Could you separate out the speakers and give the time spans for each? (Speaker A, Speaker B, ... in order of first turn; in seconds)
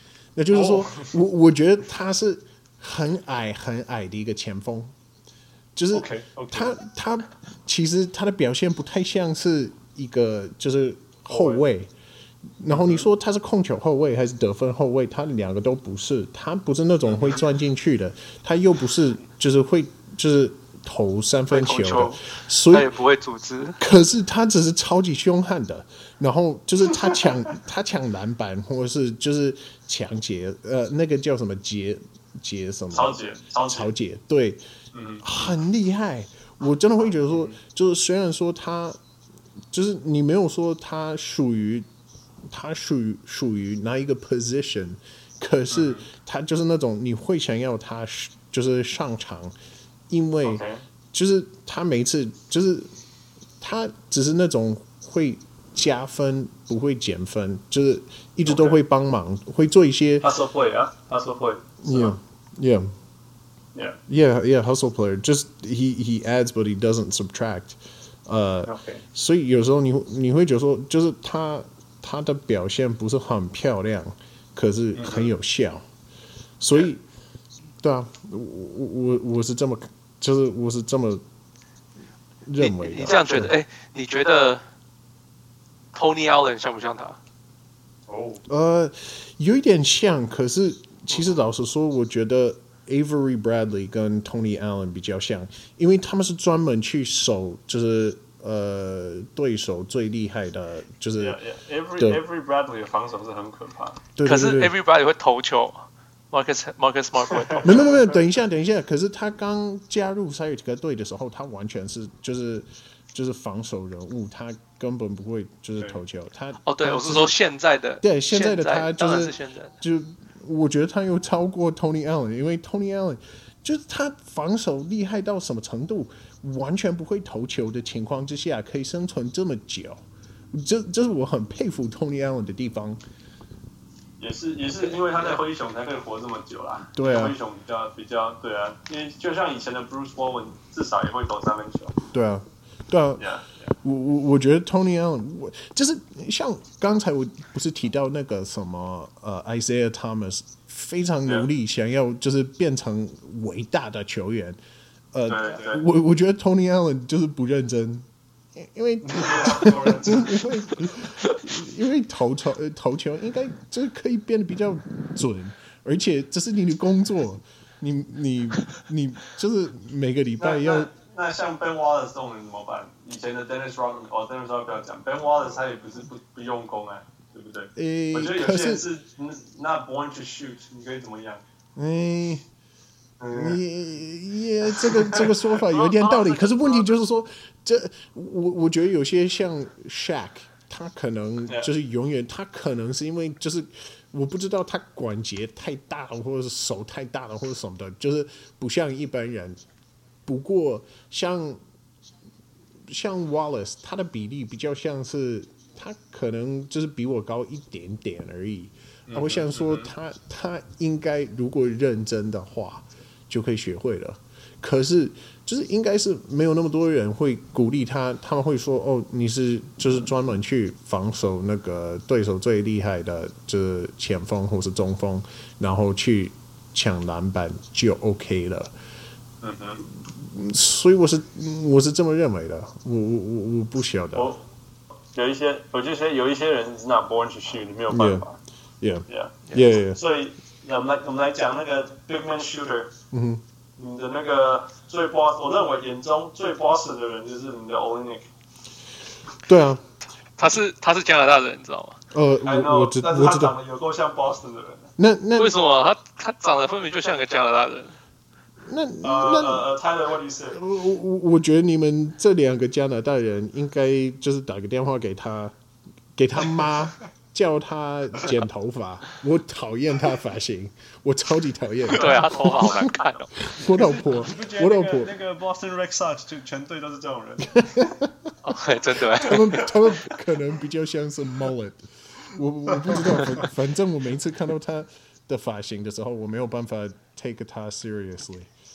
Speaker A: 0.3-4.9, 5.7-11.9, 12.6-22.9, 23.8-34.6, 35.2-39.0, 39.7-41.9, 42.5-49.5, 50.1-52.9, 53.6-60.3, 61.8-62.9, 64.1-75.8, 76.6-77.0, 77.8-81.2, 82.5-83.5, 88.5-101.4, 104.2-104.7, 107.6-117.4, 118.0-133.0, 136.9-137.4, 142.1-143.2, 143.8-154.6, 155.1-170.9, 177.7-178.9, 181.8-182.4, 183.3-199.6, 200.2-201.6, 202.8-228.7, 230.0-234.3, 237.9-238.2, 238.8-240.0, 243.1-243.4, 249.4-249.8, 252.1-253.6, 255.0-255.6, 258.6-259.7, 260.5-265.5, 266.1-275.1, 277.5-278.3, 279.1-288.5
Speaker B: 0.5-1.1, 5.9-6.7, 11.3-11.6, 12.7-13.1, 17.1-17.4, 32.9-33.9, 34.9-35.5, 37.1-37.6, 45.7-46.0, 50.4-50.8, 58.5-58.8, 60.2-62.2, 68.6-69.0, 74.9-75.3, 88.1-88.4, 101.2-104.0, 107.5-108.2, 134.2-141.9, 143.2-143.7, 155.3-155.8, 159.0-160.4, 170.4-181.4, 183.2-183.6, 184.8-186.9, 191.4-191.7, 209.1-209.9, 229.4-229.8, 234.1-234.4, 235.1-238.4, 239.1-239.3, 239.8-242.9, 243.8-248.2, 252.4-254.9, 259.0-260.6, 271.9-272.7, 273.7-277.9, 279.3-279.6, 282.8-283.1
Speaker C: 21.5-23.8, 82.6-84.6, 85.9-87.2, 104.2-108.0, 116.7-119.7, 135.0-135.3, 250.4-252.0, 255.3-258.0, 271.9-273.4, 278.4-279.7